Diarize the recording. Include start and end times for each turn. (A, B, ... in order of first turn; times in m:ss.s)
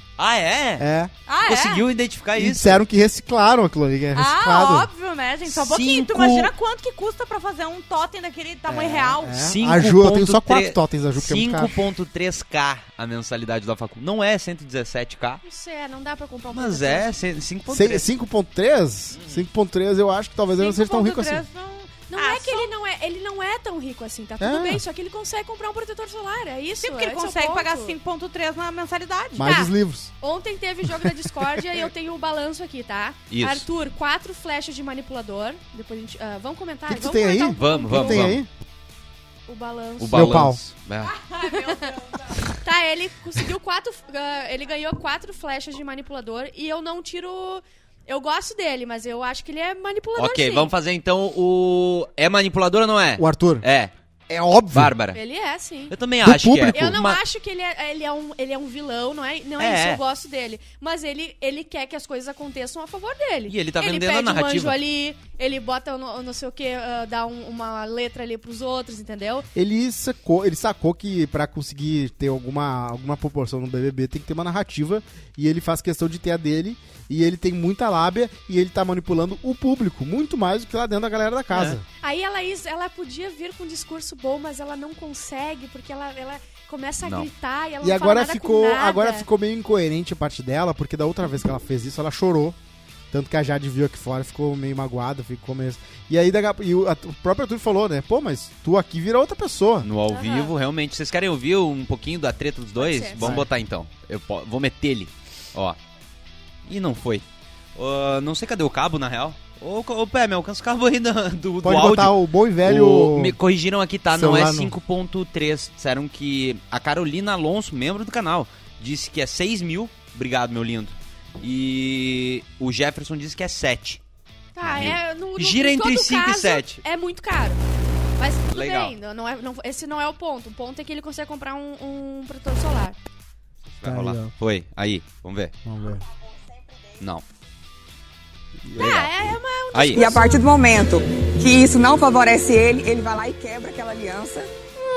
0:00.2-0:00.9 A
0:00.8-0:01.1 B
0:01.3-0:01.9 C
0:01.4-0:02.8 A
0:02.4-0:04.9 B
0:04.1-0:09.4 C
0:05.5-0:06.5 A
0:08.7-0:11.8 B
0:09.4-0:15.4 A
0:15.4-0:17.1 D
0:16.5-0:18.1 A
0:17.7-0:21.4 B
0:19.1-0:19.4 A
0:20.6-0:22.7 C
0:22.1-0:28.0 D
0:24.4-0:24.8 B
0:26.8-0:29.6 C
0:29.4-0:30.1 B
0:29.4-0:38.3 D
0:33.3-0:33.6 A
0:36.9-0:38.5 B
0:37.6-0:38.4 A
0:39.5-0:40.4 D
0:40.0-0:41.2 A
0:40.1-0:40.6 B
0:41.0-0:42.4 C
0:41.4-0:50.7 D
0:50.2-0:53.9 A
0:53.2-0:53.6 B
0:54.3-0:54.9 B
0:54.7-0:55.2 A
0:55.2-0:55.9 D
0:55.9-0:57.2 A
0:56.2-0:56.8 B
0:56.7-1:09.5 D
0:59.6-1:00.0 A
1:03.5-1:04.8 A
1:09.6-1:21.8 B
1:21.5-1:21.8 A
1:22.0-1:29.3 D
1:27.0-1:27.3 A
1:27.8-1:32.6 B
1:33.1-1:39.9 B
1:39.8-1:45.8 A
1:40.1-1:40.5 D
1:42.8-1:43.3 D
1:43.2-1:43.5 B
1:46.7-1:47.2 A
1:47.8-2:04.0 A
1:51.6-1:53.4 B
1:54.1-1:54.7 B
2:04.6-2:07.6 D
2:04.6-2:06.8 A
2:08.2-2:13.0 D
2:08.5-2:08.9 A
2:13.8-2:15.5 A
2:13.8-2:14.3 B
2:15.6-2:16.0 B
2:17.0-2:17.2 A
2:18.6-2:19.0 B
2:18.8-2:19.1 A
2:18.8-2:20.4 D
2:19.7-2:20.2 A
2:19.9-2:24.5 E